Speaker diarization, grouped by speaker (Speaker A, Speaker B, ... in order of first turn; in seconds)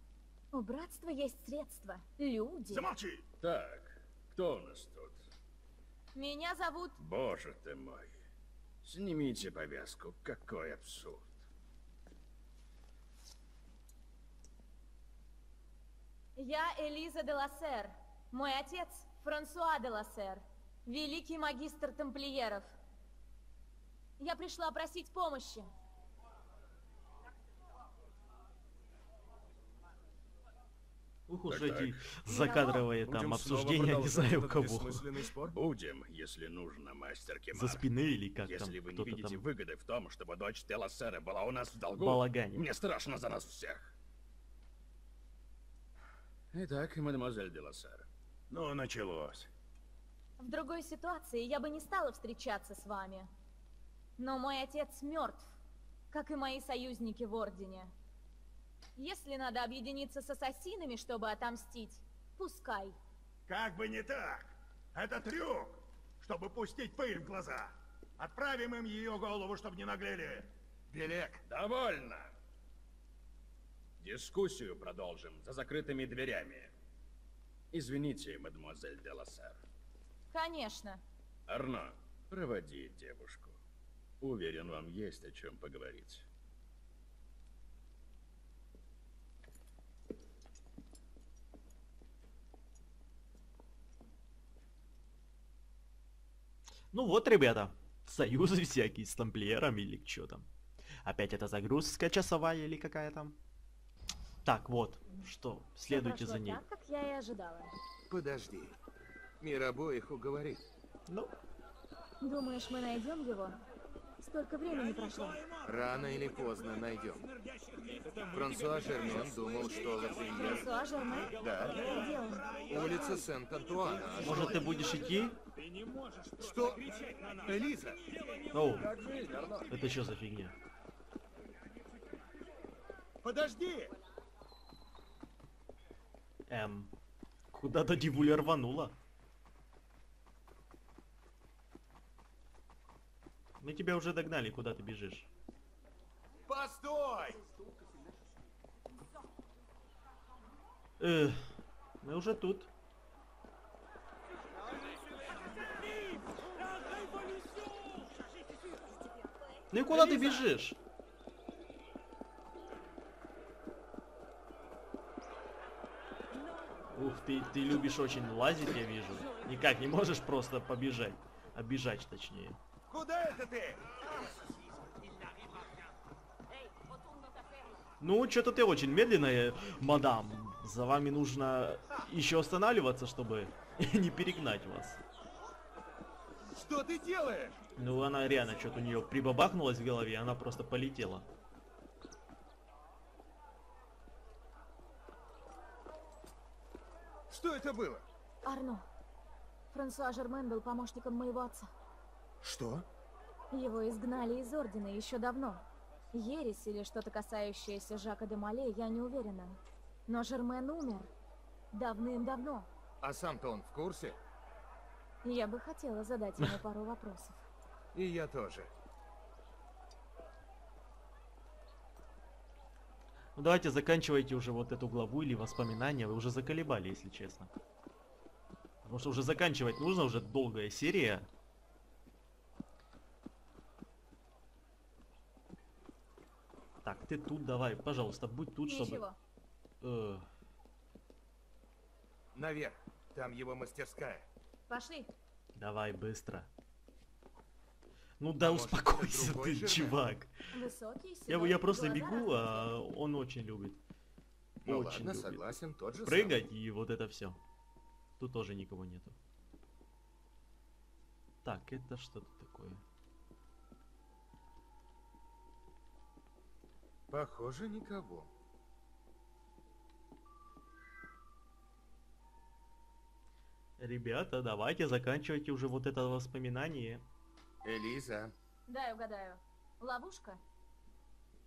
Speaker A: 0.5-2.9, 6.2-7.0, 16.4-22.8, 24.2-25.7, 32.3-32.9, 50.4-53.3, 54.2-55.5, 56.1-57.9, 59.0-63.0, 80.3-81.0, 105.9-107.7, 112.2-113.6, 114.2-115.5, 120.2-123.3, 198.4-198.9, 199.7-201.7, 203.5-211.1, 211.7-212.7, 215.2-217.4, 238.7-239.2, 244.7-245.1, 250.5-252.7, 278.7-280.4
Speaker B: 2.7-3.2, 33.1-35.5, 63.5-70.5, 125.6-127.4, 128.8-129.7, 133.2-133.9
Speaker C: 3.4-5.2, 7.0-8.1, 8.8-11.4, 31.5-32.2, 35.5-37.8, 38.5-43.9, 46.5-49.5, 71.5-72.3, 74.0-76.7, 77.7-79.6, 81.5-83.6, 84.2-86.3
Speaker D: 31.3-35.1, 37.5-39.5, 42.0-42.7, 96.9-100.5, 101.0-103.4, 104.5-106.6, 111.1-111.3, 124.2-125.4, 128.5-128.9, 129.7-130.6, 136.5-136.9, 137.5-139.0, 143.6-145.3, 151.0-151.4, 152.0-152.7, 159.7-160.8, 166.9-172.6, 178.0-185.0, 187.8-191.3, 223.4-227.5, 228.8-231.3, 236.8-239.0, 239.8-240.3, 245.6-246.5, 248.2-250.3, 251.3-253.8, 254.7-257.4, 258.2-259.2, 261.4-262.8, 273.8-277.1
Speaker E: 70.9-71.4, 108.1-108.8, 109.4-110.7, 115.6-117.2, 118.3-120.7, 121.3-122.0, 122.7-124.6, 126.4-126.9, 127.4-128.2, 146.5-147.4, 172.9-173.8, 186.8-187.5, 197.3-198.1, 202.4-202.9, 213.0-214.2, 217.9-218.7, 242.3-244.3, 248.4-250.0, 254.6-256.4, 267.1-268.3, 277.6-278.3